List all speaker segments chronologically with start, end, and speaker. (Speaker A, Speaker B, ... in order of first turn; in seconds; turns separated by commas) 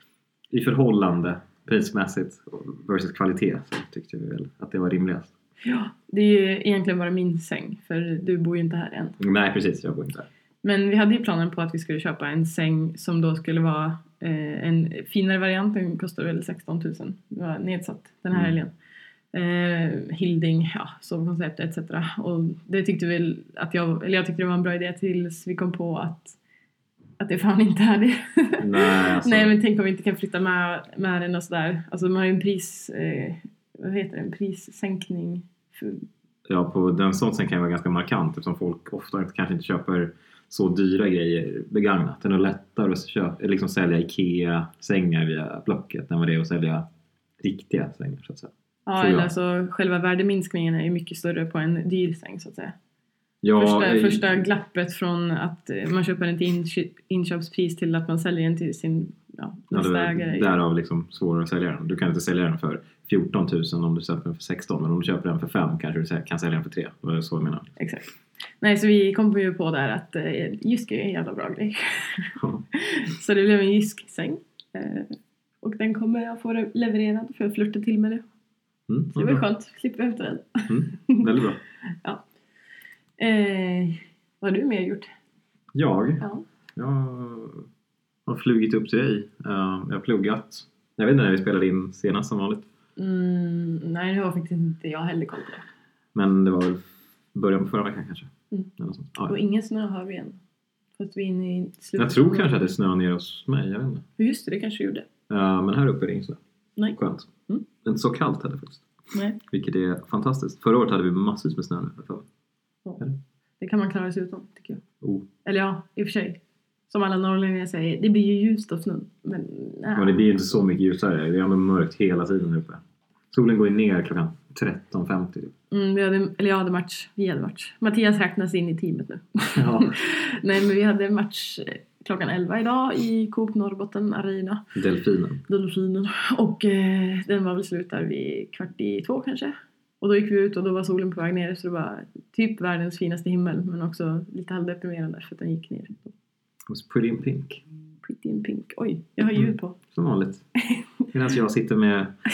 Speaker A: 0.5-5.3, Speaker B: 5.6-9.2, Speaker A: 9.2-10.3, Speaker B: 10.6-18.7, Speaker B: 19.3-26.4, Speaker B: 27.2-36.0, Speaker A: 28.6-29.6, Speaker A: 36.5-46.8, Speaker A: 47.4-49.3, Speaker B: 48.9-52.7, Speaker A: 53.4-54.4, Speaker B: 53.5-60.5, Speaker A: 59.7-67.7, Speaker B: 67.8-78.2, Speaker A: 72.4-72.6, Speaker A: 78.9-79.4, Speaker B: 79.1-81.3, Speaker A: 80.7-81.6, Speaker B: 83.2-85.1, Speaker A: 85.7-86.2, Speaker A: 86.8-87.7, Speaker A: 88.3-92.7, Speaker B: 93.0-95.6, Speaker A: 96.1-99.3, Speaker B: 99.3-100.4, Speaker B: 101.0-102.6, Speaker A: 102.0-104.0, Speaker B: 104.2-105.1, Speaker A: 105.3-106.4, Speaker A: 106.9-107.3, Speaker A: 107.8-108.8, Speaker B: 109.1-109.4, Speaker A: 109.5-112.2, Speaker B: 113.6-114.8, Speaker B: 115.4-116.4, Speaker B: 116.9-120.2, Speaker A: 119.9-125.5, Speaker B: 125.7-134.7, Speaker A: 129.6-129.9, Speaker A: 134.7-135.4, Speaker B: 135.5-146.1, Speaker A: 146.7-147.6, Speaker B: 148.0-149.8, Speaker A: 149.3-150.4, Speaker A: 151.1-152.1